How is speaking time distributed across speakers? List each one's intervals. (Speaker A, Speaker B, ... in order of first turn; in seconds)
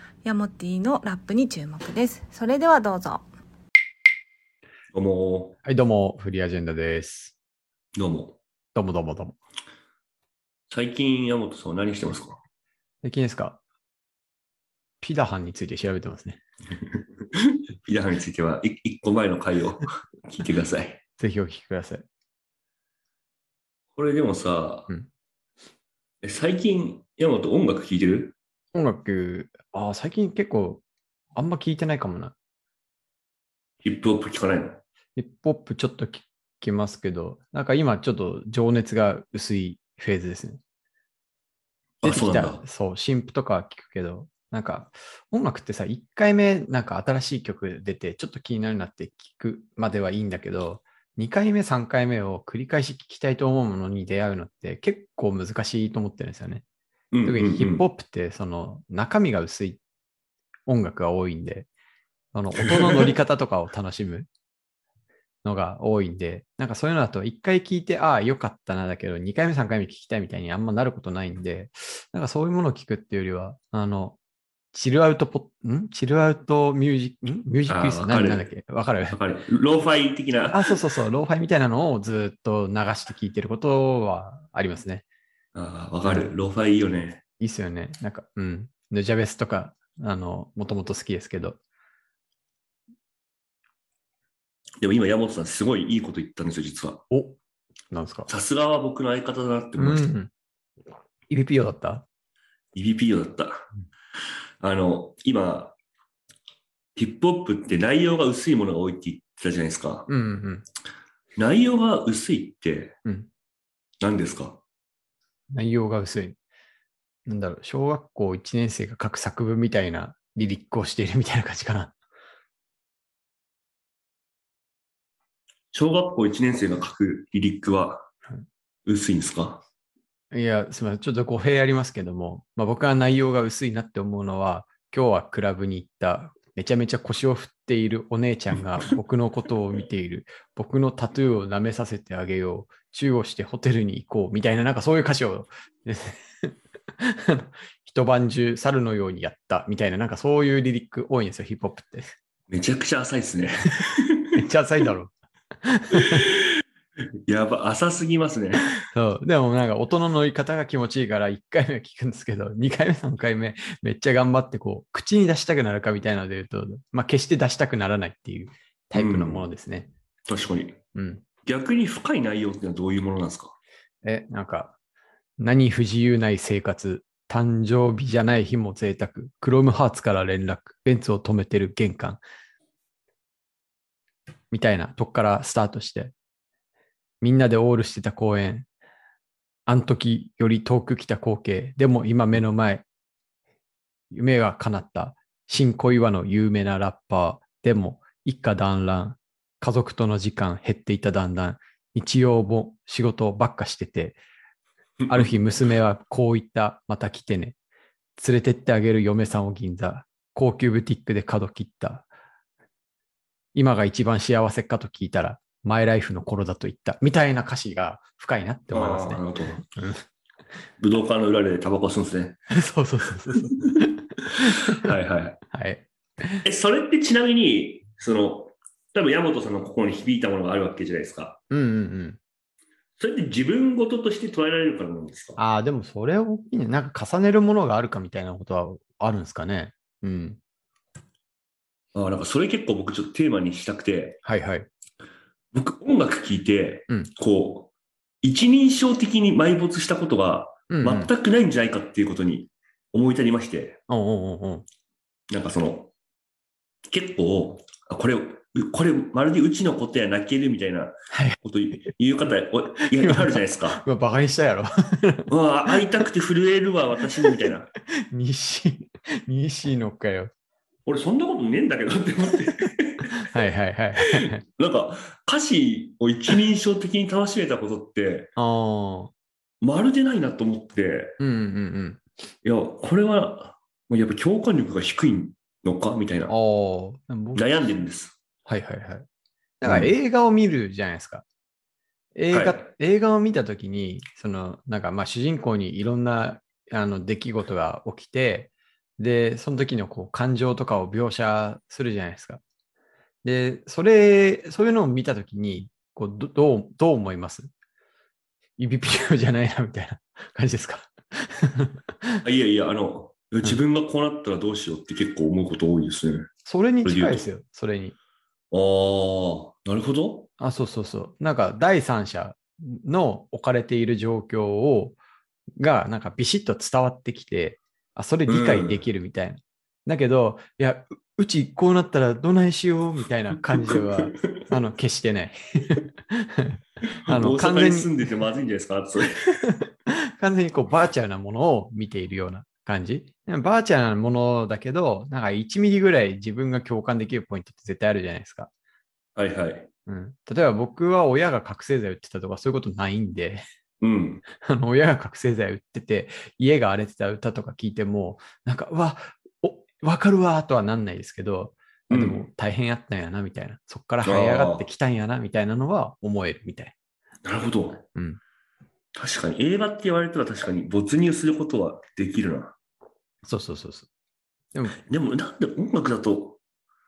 Speaker A: 0.2-3.2
Speaker B: 4.9-5.5, 8.0-8.4, 10.7-12.4, 17.2-21.0, 23.9-24.9, 26.2-28.4, 33.8-34.8, 42.0-42.6, 57.1-57.8, 77.7-78.5, 79.1-80.7, 85.5-87.2, 94.8-97.0, 98.3-100.1, 102.7-103.7, 104.6-105.8, 107.0-110.1, 111.4-113.0, 114.0-114.6, 125.7-128.1, 128.8-129.6, 152.5-154.3, 156.0-156.5, 157.3-158.7, 168.9-169.4, 170.3-170.8, 171.4-173.5, 205.0-205.3, 218.7-219.6, 220.8-222.5, 223.3-223.8, 224.7-225.4, 226.4-231.4, 233.0-235.4, 241.9-244.2, 245.5-247.7, 248.2-253.8, 255.3-255.9, 256.9-263.8, 265.3-267.7, 270.9-273.3, 274.2-278.3, 279.6-281.1, 282.4-286.3, 287.3-288.2, 289.6-289.9, 292.3-292.6, 312.2-316.3, 316.8-317.3, 318.5-320.3, 328.3-328.8, 333.5-334.2, 337.0-339.4, 349.1-349.7, 353.8-354.2, 361.9-362.2, 364.0-364.6, 367.2-367.8, 368.9-372.5, 374.9-376.4
Speaker C: 5.6-7.3, 8.7-9.3, 13.0-13.6, 15.0-16.4, 21.2-22.0, 28.7-30.8, 31.3-32.3, 35.1-40.6, 42.0-56.6, 57.2-59.8, 60.7-61.7, 62.3-64.3, 65.4-74.2, 74.7-79.2, 80.5-85.0, 86.0-86.3, 87.4-91.6, 97.1-97.4, 97.9-98.3, 99.8-100.3, 101.3-102.0, 110.1-110.7, 115.5-116.4, 117.2-121.9, 130.3-152.1, 154.3-156.2, 158.9-169.9, 170.9-171.2, 174.0-174.8, 175.4-182.2, 184.5-186.1, 187.2-188.7, 189.7-192.8, 194.1-204.2, 205.1-207.6, 208.2-212.1, 213.5-220.0, 222.5-224.9, 225.5-226.4, 231.5-232.2, 235.4-240.4, 244.2-244.7, 250.7-251.1, 253.9-254.7, 261.1-261.4, 262.9-265.3, 267.2-267.5, 268.1-270.3, 273.2-274.4, 278.4-279.1, 281.2-282.0, 286.3-287.5, 288.4-289.1, 289.6-291.2, 292.1-302.4, 303.2-307.5, 308.6-312.2, 316.4-317.9, 320.4-325.0, 325.6-338.0, 339.4-348.5, 349.9-353.4, 354.3-366.8, 367.9-368.2, 373.2-373.9